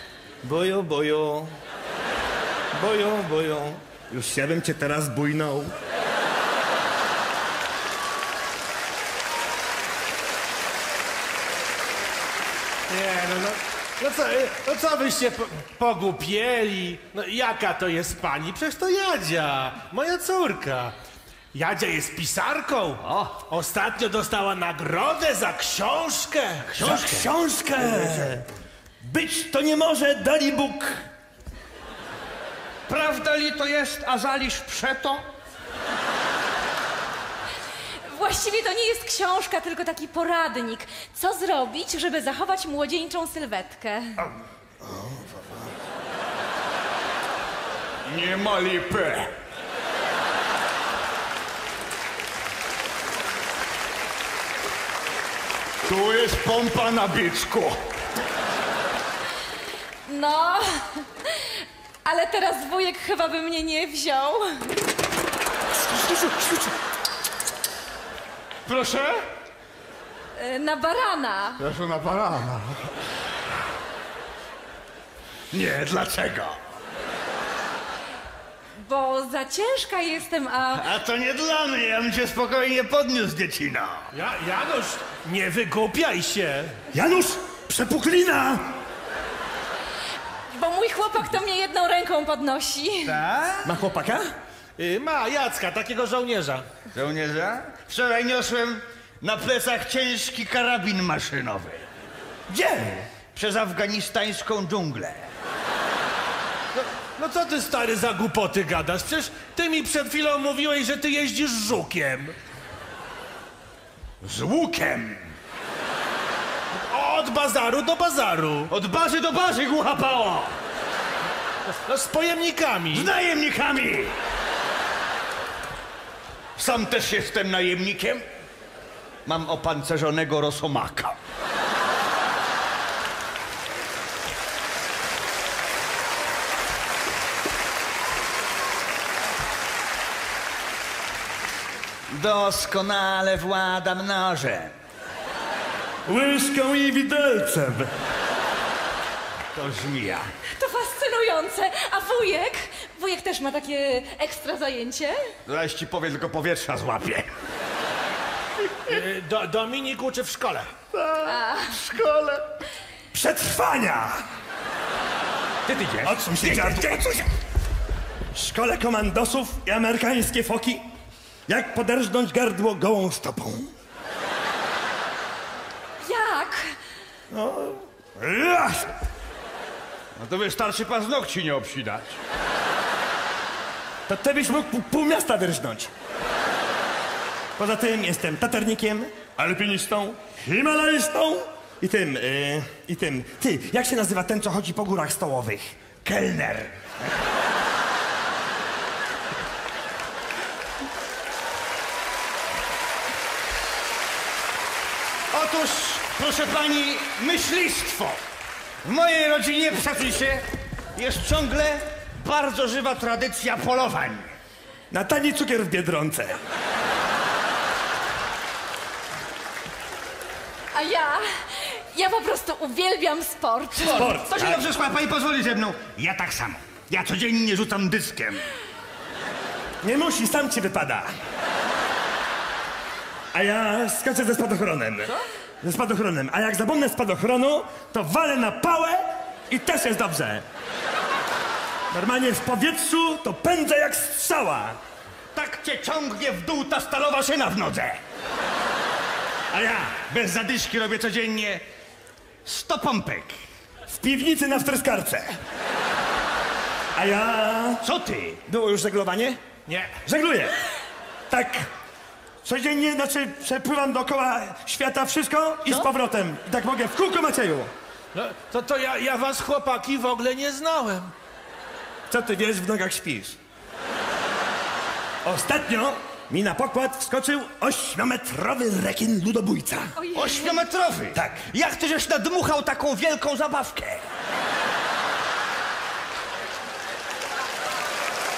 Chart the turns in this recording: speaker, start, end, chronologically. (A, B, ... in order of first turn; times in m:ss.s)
0:00.4-0:01.5 A
0:02.7-0:05.7 A
0:12.9-0:20.9 B
0:21.5-0:26.7 B
0:23.0-0:23.3 C
0:26.7-0:28.3 C
0:26.8-0:28.4 A
0:29.0-0:31.0 A
0:32.9-0:35.2 C
0:38.1-0:44.2 D
0:44.8-0:45.4 C
0:48.0-0:49.3 C
0:55.8-0:57.8 C
1:00.0-1:04.7 D
1:06.0-1:06.7 C
1:08.6-1:09.2 C
1:10.4-1:11.6 D
1:11.6-1:12.9 C
1:15.5-1:16.6 C
1:18.8-1:20.9 D
1:20.7-1:24.1 C
1:24.1-1:26.8 B
1:26.9-1:28.7 A
1:30.5-1:33.2 D
1:33.0-1:33.7 C
1:33.6-1:34.3 A
1:34.8-1:36.7 B
1:36.9-1:41.8 C
1:42.5-1:43.1 A
1:43.3-1:45.3 C
1:46.7-1:52.3 B
1:54.2-1:55.3 C
1:56.7-1:58.7 B
1:58.7-2:00.5 C
2:01.8-2:03.1 B
2:02.9-2:04.1 C
2:06.6-2:08.2 C
2:09.2-2:11.2 C
2:22.1-2:24.7 C
2:26.0-2:27.9 A
2:29.5-2:30.3 C
2:30.6-2:35.2 D
2:35.5-2:37.3 C
2:38.8-2:40.7 B
2:41.0-2:42.4 C
2:41.2-2:41.8 D
2:43.1-2:44.2 A
2:45.6-2:47.2 C
2:46.0-2:47.0 A
2:48.3-2:50.8 A
2:51.5-2:53.7 A
2:56.0-2:56.7 D
2:57.3-2:58.9 A
3:00.2-3:02.1 C
3:04.1-3:05.9 A
3:07.6-3:16.7 A
3:25.3-3:28.2 C
3:28.8-3:30.4 C
3:31.0-3:34.3 C
3:34.9-3:36.4 A
3:40.7-3:44.1 D
3:43.9-3:48.5 C
3:43.9-3:44.6 A
3:49.8-3:51.1 A
3:53.3-4:00.4 A
4:01.9-4:04.8 A
4:05.3-4:08.0 C
4:09.5-4:11.6 C
4:12.4-4:13.4 C
4:13.9-4:15.3 A
4:16.9-4:17.8 A
4:17.8-4:18.4 C
4:18.4-4:19.4 A
4:19.7-4:19.9 B
4:20.0-4:20.5 A
4:21.3-4:21.6 A
4:22.4-4:27.7 A
4:28.1-4:31.1 B
4:32.1-4:33.4 A
4:35.2-4:39.9 A
4:40.0-4:40.7 D
4:40.1-4:44.0 C
4:41.1-4:41.4 A